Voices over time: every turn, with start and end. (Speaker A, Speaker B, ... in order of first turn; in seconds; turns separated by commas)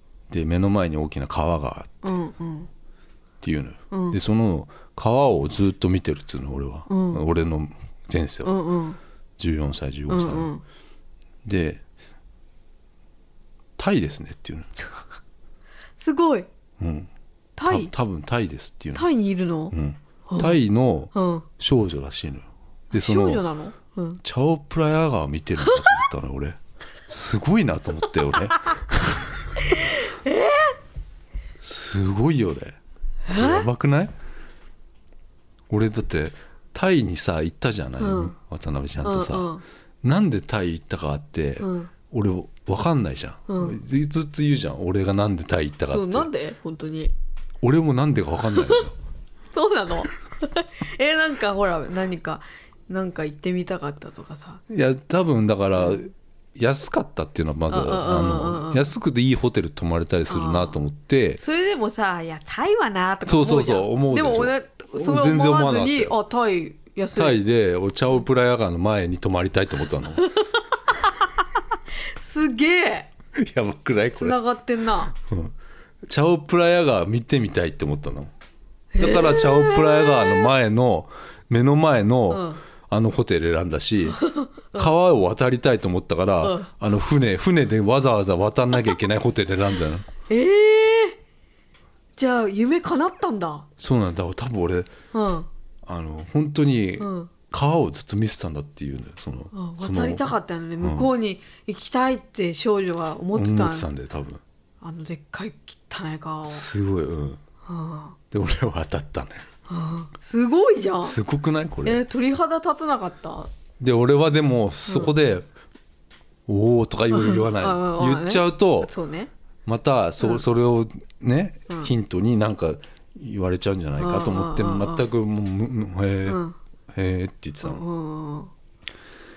Speaker A: 0.3-2.2, Speaker B: 2.0-2.7, Speaker A: 3.4-8.6, Speaker B: 3.9-4.2, Speaker B: 6.9-7.2, Speaker B: 8.4-9.0, Speaker A: 9.4-10.5, Speaker B: 10.1-10.6, Speaker A: 11.4-11.8, Speaker A: 13.8-14.7, Speaker B: 16.0-16.5, Speaker A: 16.8-17.1, Speaker B: 17.6-17.9, Speaker A: 17.6-19.1, Speaker B: 18.9-19.8, Speaker A: 19.7-23.4, Speaker B: 20.3-20.6, Speaker B: 21.1-21.5, Speaker B: 22.9-24.2, Speaker A: 24.2-29.6, Speaker B: 29.6-30.8, Speaker A: 31.6-32.8, Speaker B: 33.3-33.7, Speaker A: 33.3-34.1, Speaker A: 35.7-39.5, Speaker B: 38.0-38.4, Speaker B: 39.0-39.6, Speaker A: 40.0-46.3, Speaker B: 41.6-41.9, Speaker B: 43.5-43.8, Speaker B: 45.9-47.1, Speaker A: 47.6-48.9, Speaker B: 48.5-48.8, Speaker B: 49.5-54.6, Speaker A: 54.7-61.4, Speaker B: 57.7-58.9, Speaker B: 60.3-60.8, Speaker B: 61.4-67.4, Speaker A: 63.3-66.2, Speaker A: 67.1-70.3, Speaker B: 70.2-73.1, Speaker A: 73.4-74.4, Speaker B: 74.1-75.1, Speaker A: 75.1-75.5, Speaker A: 76.1-78.3, Speaker B: 78.9-80.5, Speaker A: 79.0-84.2, Speaker B: 82.3-82.6, Speaker B: 84.0-84.9, Speaker A: 84.7-90.1, Speaker B: 86.4-86.7, Speaker B: 90.3-91.2, Speaker B: 92.2-93.7, Speaker A: 93.8-94.9, Speaker B: 95.1-95.5, Speaker A: 95.9-101.1, Speaker B: 97.0-97.3, Speaker B: 99.5-103.9, Speaker A: 103.3-104.4, Speaker B: 104.8-106.7, Speaker A: 106.5-107.4, Speaker B: 107.7-108.2, Speaker A: 108.3-109.5, Speaker B: 109.7-111.2, Speaker A: 111.0-112.0, Speaker B: 111.8-113.5, Speaker A: 113.8-115.5, Speaker B: 114.9-115.1, Speaker A: 116.5-118.9, Speaker B: 117.1-119.3, Speaker A: 119.7-126.4, Speaker B: 124.0-125.1, Speaker B: 126.3-126.6, Speaker A: 126.9-127.8, Speaker B: 127.6-128.5